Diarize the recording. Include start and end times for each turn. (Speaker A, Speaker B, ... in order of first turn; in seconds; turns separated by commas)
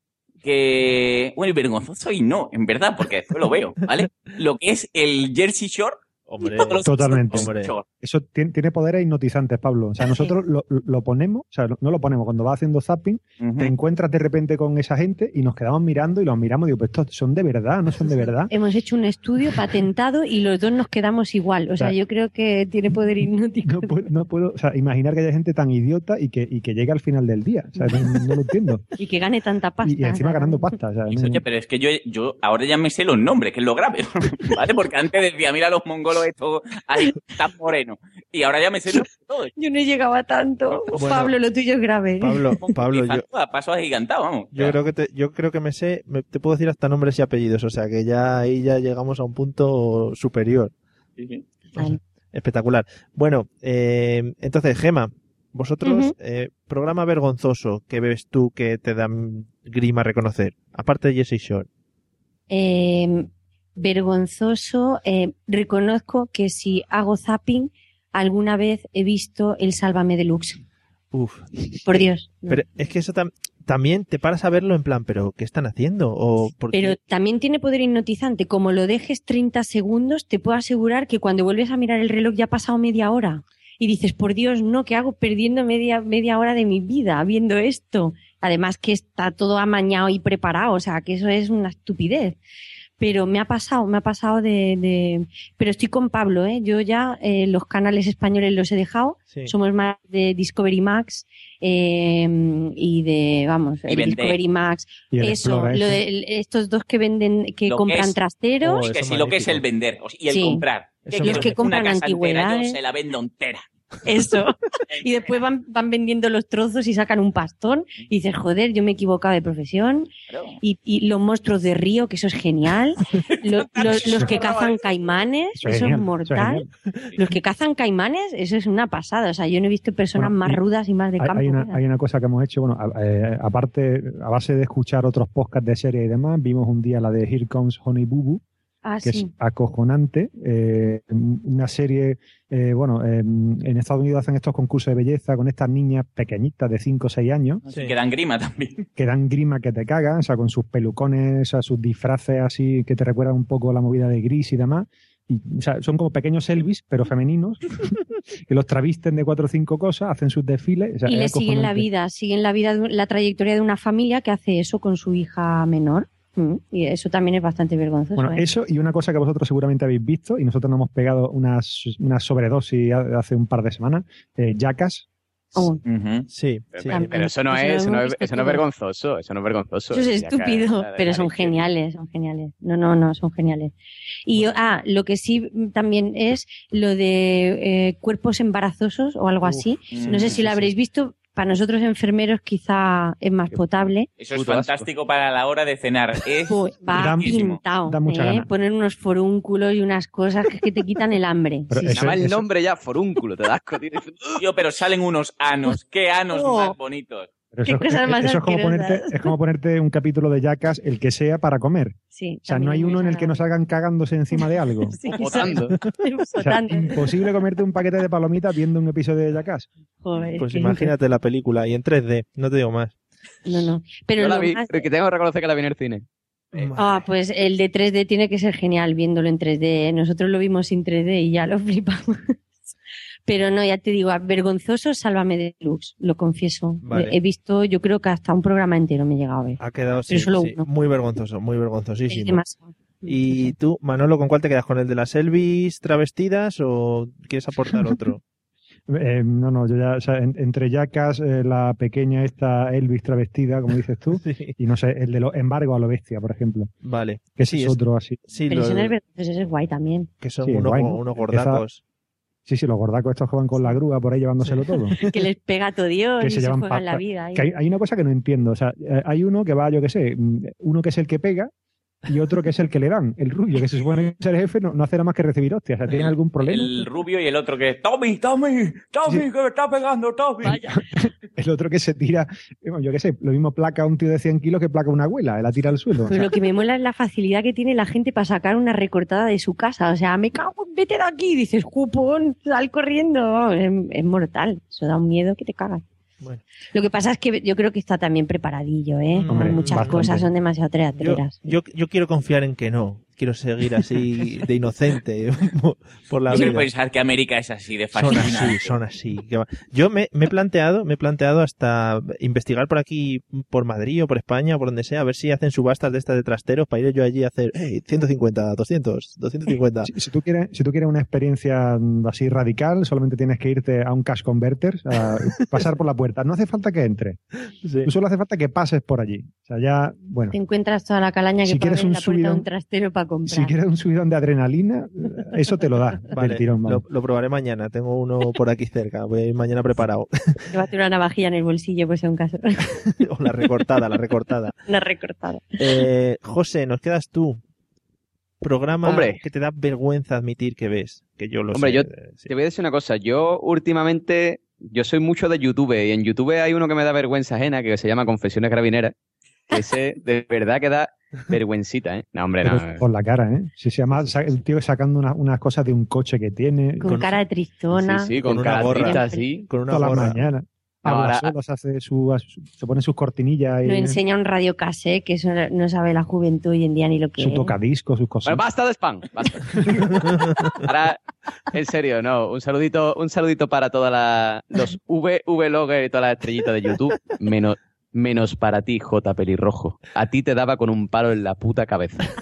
Speaker A: 0.4-7.8, Speaker B: 6.3-7.7, Speaker C: 6.8-18.5, Speaker A: 13.4-13.7, Speaker D: 18.5-24.0, Speaker C: 23.6-28.8, Speaker D: 29.0-30.8, Speaker C: 29.8-31.4, Speaker A: 31.1-39.5, Speaker D: 39.6-42.4, Speaker A: 40.7-41.0, Speaker B: 40.9-41.3, Speaker B: 42.2-43.2, Speaker A: 42.6-44.8, Speaker B: 44.5-50.7, Speaker A: 51.2-51.4, Speaker B: 51.7-61.7, Speaker D: 55.8-56.1, Speaker D: 62.5-70.6, Speaker B: 71.1-77.0, Speaker D: 71.8-72.6, Speaker D: 76.7-92.4, Speaker D: 93.0-108.8, Speaker A: 103.9-104.4, Speaker C: 105.1-106.0, Speaker A: 107.7-108.2, Speaker B: 108.6-109.6, Speaker A: 108.8-113.6, Speaker D: 110.3-110.6, Speaker B: 111.0-111.6, Speaker D: 111.2-112.8, Speaker D: 114.0-120.1, Speaker A: 114.9-115.3, Speaker A: 120.3-120.6, Speaker D: 120.6-126.7, Speaker A: 123.1-124.9, Speaker C: 125.6-126.7, Speaker D: 127.2-131.8, Speaker C: 130.1-130.6, Speaker C: 131.2-138.4, Speaker D: 138.8-139.3, Speaker C: 139.0-147.6, Speaker A: 147.6-148.8, Speaker C: 149.0-161.9, Speaker D: 161.1-168.4, Speaker C: 168.2-175.1, Speaker D: 175.5-175.8, Speaker A: 175.8-176.3, Speaker B: 176.3-177.3, Speaker E: 176.7-181.6, Speaker D: 176.9-178.6, Speaker D: 179.9-183.7, Speaker D: 184.2-194.1, Speaker B: 189.4-190.5, Speaker A: 189.9-190.4, Speaker E: 193.5-194.9, Speaker A: 194.2-197.6, Speaker D: 196.5-202.1, Speaker C: 196.9-198.5, Speaker C: 201.7-202.2, Speaker E: 201.8-204.4, Speaker A: 204.4-207.3, Speaker D: 206.3-206.7, Speaker C: 207.5-215.0, Speaker D: 207.7-209.3, Speaker D: 212.1-213.4, Speaker D: 214.9-217.1, Speaker E: 215.1-215.8, Speaker B: 215.5-215.8, Speaker C: 216.4-219.7, Speaker D: 220.0-220.9, Speaker B: 220.4-222.9, Speaker D: 223.4-224.9, Speaker E: 224.2-226.0, Speaker B: 226.5-227.1, Speaker D: 226.8-232.3, Speaker D: 233.3-240.6, Speaker B: 236.8-237.2, Speaker B: 239.6-242.4, Speaker D: 242.1-243.5, Speaker B: 243.1-248.2, Speaker C: 248.9-256.7, Speaker B: 254.2-254.6, Speaker B: 256.8-258.9, Speaker C: 257.4-258.2, Speaker D: 258.5-260.1, Speaker B: 260.2-261.8, Speaker C: 260.4-261.6, Speaker C: 262.4-264.9, Speaker B: 264.4-265.1, Speaker D: 265.0-267.5, Speaker C: 266.2-271.5, Speaker C: 272.1-276.9, Speaker A: 275.9-280.6, Speaker C: 280.4-280.8, Speaker C: 281.4-286.3, Speaker D: 286.1-295.8, Speaker D: 296.7-301.4, Speaker B: 299.1-300.3, Speaker C: 299.3-300.2, Speaker B: 301.0-306.7, Speaker A: 306.3-308.6, Speaker B: 307.9-319.9, Speaker C: 319.9-327.2, Speaker B: 327.6-327.9, Speaker C: 327.8-330.3, Speaker D: 330.3-333.5, Speaker C: 331.4-332.4, Speaker C: 333.3-336.8, Speaker B: 336.1-340.4, Speaker D: 340.5-342.7, Speaker B: 342.9-344.5, Speaker D: 344.7-345.6, Speaker B: 345.6-347.4, Speaker B: 348.4-352.3, Speaker E: 348.8-349.2, Speaker E: 351.5-358.9, Speaker E: 359.5-362.8, Speaker C: 362.4-366.9, Speaker B: 363.9-364.3, Speaker D: 366.8-369.3, Speaker B: 366.8-367.2, Speaker E: 367.8-369.5, Speaker B: 368.2-370.3, Speaker C: 369.7-374.0, Speaker E: 370.8-371.3, Speaker D: 373.6-377.6, Speaker C: 377.2-378.4, Speaker E: 378.2-381.0, Speaker B: 379.8-380.4, Speaker E: 381.5-392.1